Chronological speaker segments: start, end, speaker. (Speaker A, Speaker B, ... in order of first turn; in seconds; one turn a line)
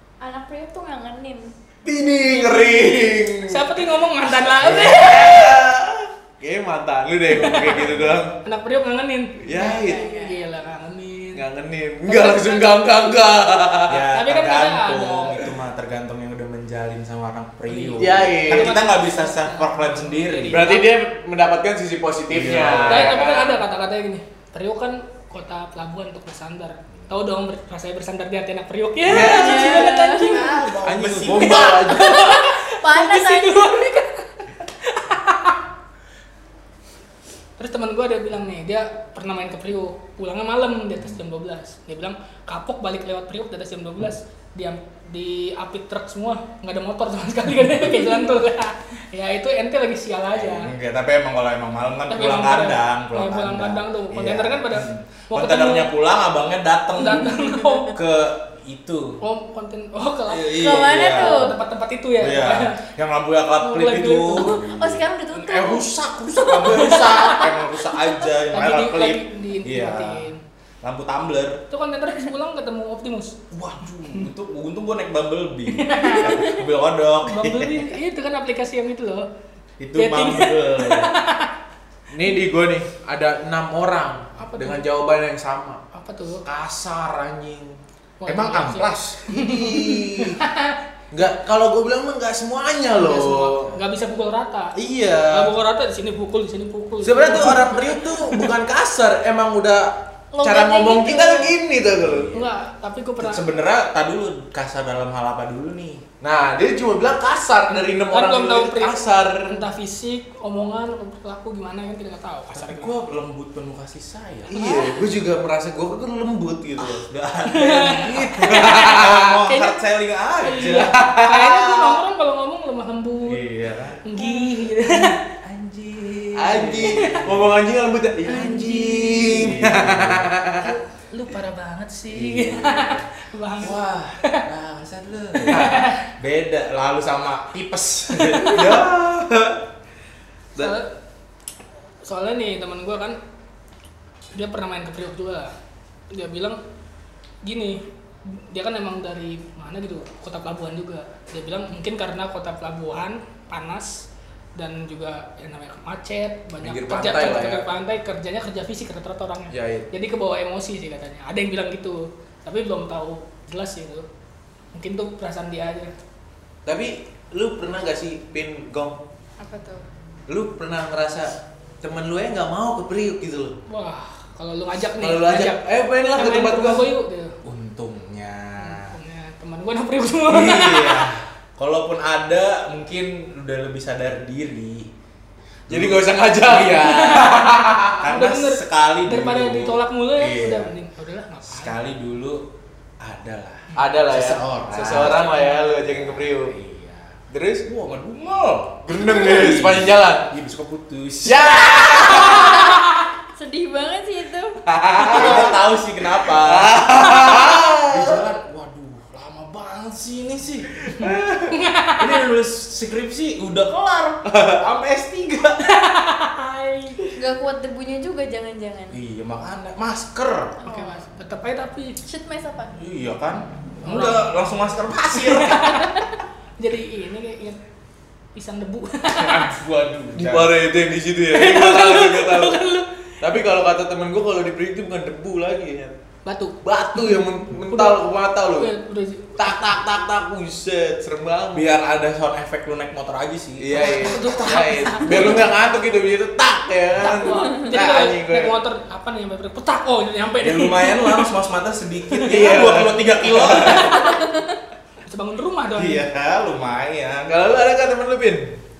Speaker A: 0.2-1.5
Speaker B: 1.8-3.8
Speaker A: 2.3-3.1
Speaker C: 3.5-5.5
Speaker D: 4.6-5.2
Speaker B: 4.6-8.3
Speaker C: 7.3-7.8
Speaker D: 7.5-8.2
Speaker C: 8.4-11.4
Speaker B: 9.4-10.1
Speaker A: 9.5-10.4
Speaker B: 11.3-14.1
Speaker C: 12.1-12.8
Speaker D: 13.9-20.7
Speaker C: 14.1-15.4
Speaker C: 17.7-20.9
Speaker B: 18.0-18.7
Speaker B: 20.5-23.6
Speaker D: 22.3-23.2
Speaker C: 22.8-30.7
Speaker D: 29.1-31.8
Speaker B: 29.1-29.8
Speaker A: 29.1-30.7
Speaker B: 30.8-32.2
Speaker C: 31.2-35.6
Speaker A: 31.5-33.9
Speaker C: 37.6-50.7
Speaker D: 50.3-59.2
Speaker C: 52.1-55.9
Speaker C: 57.0-58.0
Speaker C: 59.2-62.8
Speaker D: 60.3-61.6
Speaker A: 60.5-61.5
Speaker D: 62.2-70.3
Speaker C: 63.6-64.6
Speaker A: 64.5-67.6
Speaker C: 66.7-67.2
Speaker C: 68.5-70.4
Speaker D: 70.8-71.6
Speaker C: 71.7-73.4
Speaker D: 73.5-77.9
Speaker C: 75.7-76.6
Speaker A: 76.0-76.4
Speaker C: 77.2-79.3
Speaker D: 79.8-81.1
Speaker C: 79.9-81.5
Speaker B: 82.1-85.8
Speaker C: 84.4-84.8
Speaker C: 85.9-86.4
Speaker B: 86.4-87.8
Speaker C: 88.2-90.8
Speaker D: 88.2-89.6
Speaker B: 89.3-90.3
Speaker B: 91.1-93.7
Speaker C: 93.0-94.7
Speaker B: 94.8-95.5
Speaker C: 95.3-98.5
Speaker B: 97.0-102.3
Speaker A: 100.3-101.5
Speaker D: 102.0-102.5
Speaker C: 102.3-103.4
Speaker D: 103.2-106.0
Speaker B: 106.2-109.6
Speaker C: 108.1-112.9
Speaker D: 112.5-114.5
Speaker B: 114.5-117.0
Speaker C: 114.5-115.0
Speaker D: 117.0-121.0
Speaker C: 117.5-118.9
Speaker B: 118.5-119.4
Speaker C: 119.5-119.8
Speaker C: 120.4-123.4
Speaker B: 120.5-122.0
Speaker D: 123.2-127.5
Speaker C: 124.0-125.2
Speaker B: 126.3-130.7
Speaker C: 128.2-129.4
Speaker D: 129.1-130.3
Speaker C: 130.6-134.4
Speaker D: 132.1-133.1
Speaker D: 133.6-138.9
Speaker C: 135.4-136.0
Speaker B: 135.5-135.8
Speaker B: 138.4-139.6
Speaker C: 140.6-140.9
Speaker C: 142.0-143.2
Speaker C: 144.3-145.5
Speaker C: 146.1-146.6
Speaker C: 147.4-164.1
Speaker B: 156.6-157.7
Speaker B: 159.5-159.8
Speaker C: 164.7-165.9
Speaker B: 166.7-169.0
Speaker A: 169.4-169.8
Speaker B: 170.3-173.6
Speaker C: 173.7-175.6
Speaker B: 175.0-176.9
Speaker C: 176.1-177.3
Speaker D: 177.4-179.0
Speaker C: 178.6-181.1
Speaker D: 180.3-184.9
Speaker D: 185.7-187.0
Speaker B: 185.7-188.1
Speaker C: 186.6-187.5
Speaker D: 188.0-190.7
Speaker C: 188.1-191.7
Speaker D: 191.4-192.4
Speaker D: 193.0-201.6
Speaker B: 193.8-196.5
Speaker C: 194.7-195.7
Speaker B: 197.3-197.7
Speaker B: 198.9-200.3
Speaker B: 201.2-202.7
Speaker A: 201.3-205.6
Speaker B: 204.7-205.5
Speaker D: 205.0-215.8
Speaker B: 206.2-208.2
Speaker C: 211.5-212.1
Speaker B: 214.3-214.6
Speaker C: 215.8-216.9
Speaker A: 217.1-219.0
Speaker D: 218.9-220.6
Speaker A: 220.6-221.0
Speaker C: 220.7-222.0
Speaker A: 222.0-222.7
Speaker D: 222.8-225.9
Speaker C: 223.8-224.3
Speaker C: 225.1-225.9
Speaker A: 225.8-226.0
Speaker C: 226.6-227.6
Speaker C: 228.3-229.4
Speaker D: 229.1-230.6
Speaker B: 230.1-232.6
Speaker C: 231.3-232.9
Speaker B: 233.2-235.9
Speaker C: 236.2-238.0
Speaker B: 236.6-238.7
Speaker C: 238.6-239.6
Speaker B: 239.4-241.7
Speaker D: 241.5-245.5
Speaker B: 243.6-248.6
Speaker C: 243.8-245.5
Speaker C: 247.0-251.3
Speaker A: 247.3-247.8
Speaker D: 250.4-254.0
Speaker B: 252.2-253.9
Speaker C: 253.3-254.1
Speaker A: 253.8-254.6
Speaker C: 255.1-256.0
Speaker D: 255.7-257.4
Speaker B: 257.3-258.5